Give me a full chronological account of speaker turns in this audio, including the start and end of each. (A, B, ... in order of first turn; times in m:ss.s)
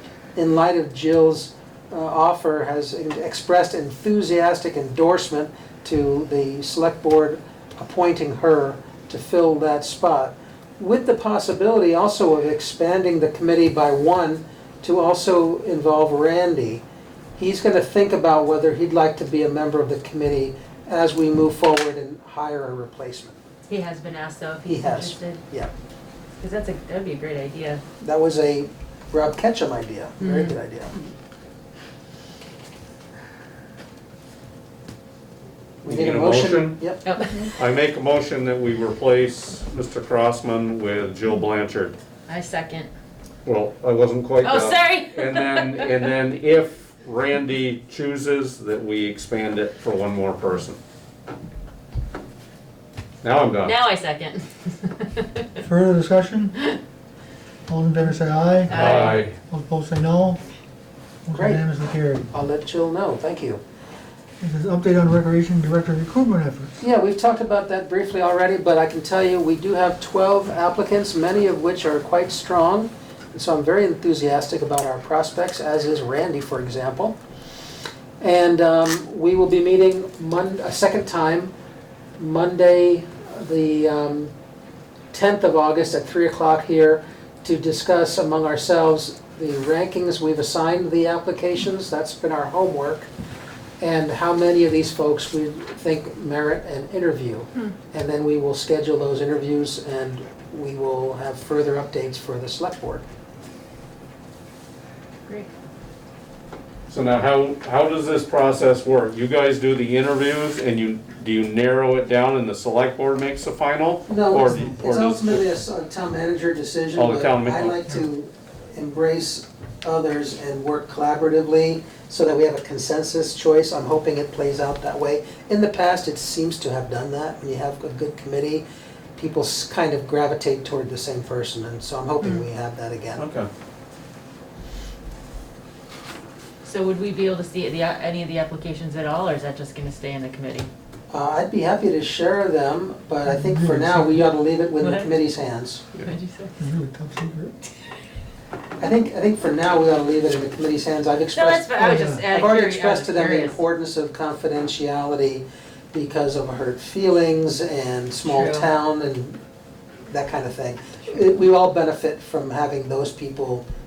0:00.4-0:16.8 A
0:17.4-0:23.4 A
0:23.7-0:25.4 B
0:24.6-0:25.7 A
0:26.4-0:27.8 B
0:28.0-0:31.1 A
0:30.2-0:30.5 B
0:35.8-0:36.9 C
0:35.8-0:37.1 A
0:37.0-0:37.5 B
0:37.6-0:42.0 C
0:42.3-0:42.9 B
0:43.4-0:50.8 C
0:44.4-0:46.0 B
0:53.2-0:53.8 C
0:53.6-0:55.6 B
0:55.6-0:56.6 D
0:57.7-1:00.4 D
0:58.7-0:59.3 C
0:58.7-0:59.3 B
1:01.2-1:02.3 D
1:01.4-1:01.6 A
1:02.3-1:03.6 A
1:04.4-1:06.7 D
1:06.8-1:17.2 A
1:18.2-1:21.5 A
1:22.2-1:24.3 A
1:25.1-1:33.1 A
1:33.8-1:43.0 A
1:46.9-1:55.4 C
1:54.1-2:08.6 A
1:57.0-1:57.9 C
2:09.2-2:13.2 A
2:13.2-2:13.5 C
2:16.6-2:20.7 B
2:21.1-2:25.8 A
2:23.3-2:24.3 D
2:24.8-2:25.2 B
2:26.0-2:26.5 B
2:26.6-2:27.6 D
2:28.8-2:39.4 A
2:31.3-2:33.6 B
2:31.8-2:32.2 D
2:38.3-2:38.7 B
2:40.1-2:43.6 A